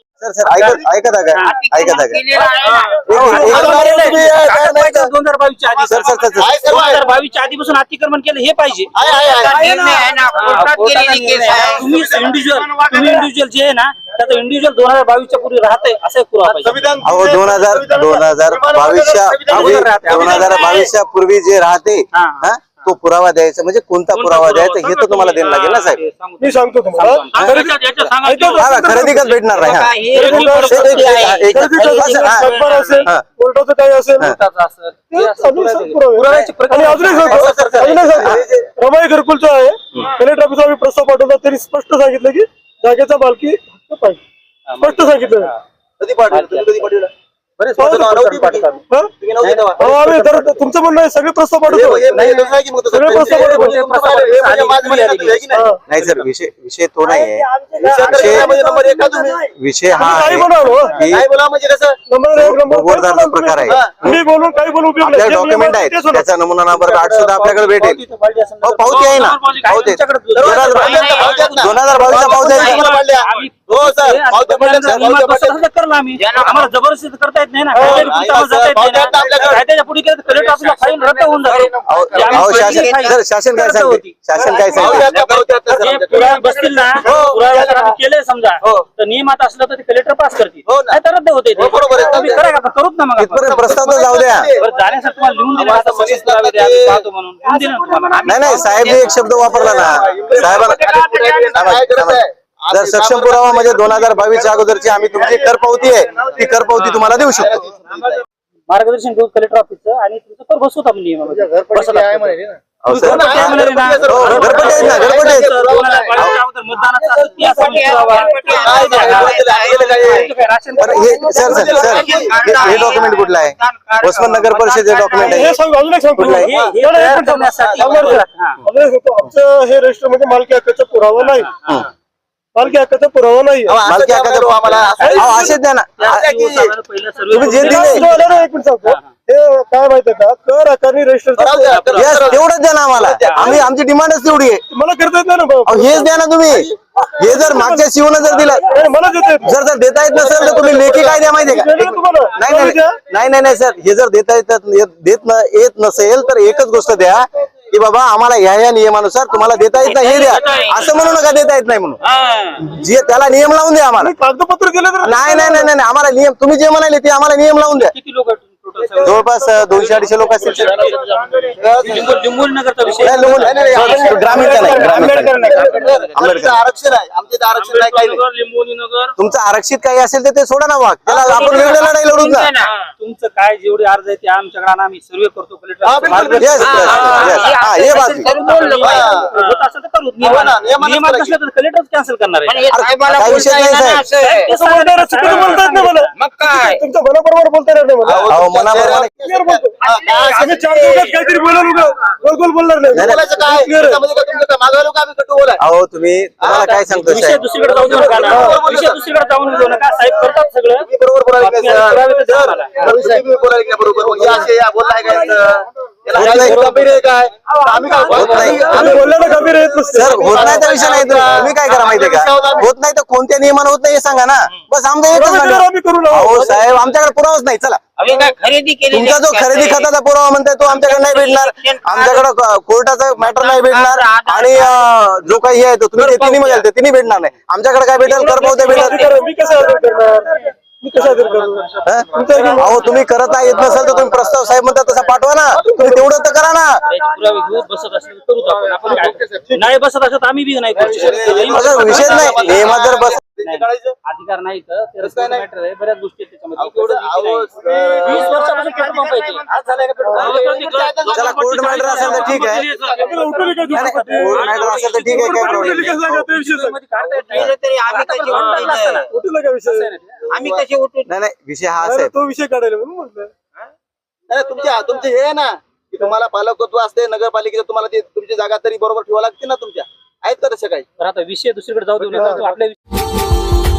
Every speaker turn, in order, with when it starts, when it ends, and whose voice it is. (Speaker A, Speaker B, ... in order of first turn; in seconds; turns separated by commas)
Speaker A: 0.2-2.2, Speaker B: 0.5-0.8, Speaker C: 1.3-1.6, Speaker D: 1.4-3.0, Speaker C: 2.3-8.9, Speaker E: 3.0-4.0, Speaker A: 3.1-5.1, Speaker B: 3.4-5.0, Speaker A: 5.9-6.5, Speaker B: 6.3-7.0, Speaker B: 8.9-9.7, Speaker D: 9.1-11.9, Speaker C: 9.4-16.9, Speaker B: 16.5-17.4, Speaker A: 17.0-26.0, Speaker B: 18.1-20.8, Speaker C: 19.4-20.9, Speaker C: 22.1-22.9, Speaker C: 24.1-30.9, Speaker E: 26.4-29.4, Speaker A: 28.6-32.5, Speaker D: 29.5-32.6, Speaker E: 30.1-34.3, Speaker C: 32.4-33.1, Speaker C: 34.2-38.1, Speaker E: 35.1-44.2, Speaker B: 37.2-38.7, Speaker C: 44.7-45.5, Speaker E: 44.8-45.5, Speaker B: 46.0-47.1, Speaker C: 46.3-46.9, Speaker C: 47.6-48.8, Speaker E: 47.8-48.2, Speaker B: 47.8-48.7, Speaker B: 49.2-49.9, Speaker C: 49.4-50.6, Speaker E: 49.8-53.9, Speaker B: 51.7-55.7, Speaker C: 53.1-56.3, Speaker E: 55.5-55.8, Speaker A: 55.9-57.5, Speaker E: 57.1-61.1, Speaker B: 57.8-59.4, Speaker A: 58.0-58.5, Speaker A: 59.5-61.2, Speaker B: 61.1-62.0, Speaker E: 62.1-66.3, Speaker A: 62.4-64.2, Speaker B: 63.6-64.0, Speaker A: 65.0-68.0, Speaker C: 66.8-84.2, Speaker A: 68.6-72.8, Speaker B: 69.7-75.6, Speaker D: 70.8-71.5, Speaker D: 76.2-76.7, Speaker E: 77.7-78.1, Speaker B: 77.8-79.6, Speaker D: 80.5-83.2, Speaker A: 81.9-85.1, Speaker B: 84.4-88.0, Speaker D: 84.5-85.4, Speaker C: 84.8-85.1, Speaker C: 85.7-93.7, Speaker B: 90.7-91.0, Speaker B: 91.5-92.5, Speaker A: 93.2-94.5, Speaker B: 93.5-94.7, Speaker C: 94.6-99.0, Speaker B: 95.5-97.1, Speaker D: 98.1-101.5, Speaker A: 98.2-100.9, Speaker B: 99.4-105.9, Speaker A: 101.5-107.6, Speaker C: 106.7-107.1, Speaker B: 107.2-108.2, Speaker C: 108.7-123.1, Speaker A: 112.8-115.6, Speaker B: 113.0-116.3, Speaker D: 117.1-120.3, Speaker E: 117.5-118.3, Speaker B: 118.5-120.3, Speaker A: 120.8-125.6, Speaker E: 120.8-121.5, Speaker D: 121.1-125.5, Speaker B: 121.4-122.9, Speaker E: 125.1-131.6, Speaker A: 126.2-126.5, Speaker C: 126.2-128.6, Speaker B: 126.4-126.7, Speaker B: 127.6-128.2, Speaker C: 131.2-131.9, Speaker E: 132.6-133.8, Speaker B: 133.7-135.5, Speaker A: 133.8-136.3, Speaker C: 134.6-139.1, Speaker E: 135.0-135.5, Speaker B: 136.2-136.7, Speaker A: 137.3-138.1, Speaker E: 137.4-141.9, Speaker B: 141.4-143.7, Speaker C: 141.8-142.4, Speaker A: 142.0-144.6, Speaker C: 143.3-143.6, Speaker E: 144.7-146.1, Speaker A: 145.7-148.6, Speaker E: 147.3-147.9, Speaker E: 148.7-149.6, Speaker A: 149.4-162.0, Speaker E: 150.1-153.0, Speaker D: 159.8-160.9, Speaker C: 159.9-161.0, Speaker A: 162.6-164.2, Speaker E: 164.0-165.7, Speaker A: 165.0-167.9, Speaker C: 167.8-171.1, Speaker A: 169.0-170.8, Speaker B: 171.6-172.3, Speaker C: 171.8-176.1, Speaker B: 172.9-178.2, Speaker A: 173.0-175.5, Speaker E: 173.9-175.8, Speaker A: 176.1-176.6, Speaker C: 177.6-179.1, Speaker A: 179.2-182.5, Speaker D: 181.1-182.7, Speaker C: 182.8-192.7, Speaker B: 185.8-187.4, Speaker A: 186.1-188.3, Speaker D: 186.6-189.3, Speaker B: 188.8-189.4, Speaker B: 190.2-191.3, Speaker D: 192.5-194.6, Speaker A: 192.7-194.1, Speaker C: 194.2-196.1, Speaker E: 194.5-198.3, Speaker D: 195.3-195.5, Speaker D: 196.1-196.8, Speaker B: 198.1-201.1, Speaker A: 198.3-199.1, Speaker E: 199.2-204.1, Speaker A: 202.9-203.2, Speaker B: 202.9-205.6, Speaker A: 205.6-207.4, Speaker B: 206.4-206.8, Speaker C: 206.4-210.9, Speaker B: 207.7-209.0, Speaker E: 208.2-208.6, Speaker B: 210.8-222.7, Speaker C: 211.4-213.2, Speaker A: 216.2-216.7, Speaker C: 216.2-217.0, Speaker C: 217.8-219.1, Speaker E: 218.1-220.6, Speaker A: 218.1-219.1, Speaker D: 218.4-218.8, Speaker A: 219.9-227.8, Speaker C: 220.8-221.0, Speaker E: 225.1-226.6, Speaker D: 228.0-229.9, Speaker A: 228.9-239.1, Speaker D: 230.7-232.3, Speaker D: 233.2-234.9, Speaker D: 235.9-236.7, Speaker C: 238.2-239.2, Speaker E: 238.7-242.9, Speaker A: 241.8-246.8, Speaker C: 242.3-243.7, Speaker B: 245.5-245.8, Speaker E: 245.6-246.0, Speaker C: 246.8-252.8, Speaker B: 248.7-249.4, Speaker B: 250.8-254.0, Speaker A: 251.5-253.2, Speaker C: 253.4-257.5, Speaker B: 255.0-255.4, Speaker B: 256.6-258.7, Speaker E: 257.6-258.2, Speaker C: 258.0-269.1, Speaker B: 259.5-263.1, Speaker E: 260.0-260.4, Speaker A: 261.1-262.7, Speaker E: 262.8-264.4, Speaker A: 263.7-266.3, Speaker E: 265.1-266.8, Speaker D: 267.2-269.1, Speaker E: 269.1-269.9, Speaker C: 269.7-270.3, Speaker D: 270.3-271.1, Speaker B: 270.4-270.7, Speaker A: 271.1-272.1, Speaker E: 271.8-273.3, Speaker B: 274.3-280.9, Speaker C: 281.0-282.8, Speaker E: 282.0-282.6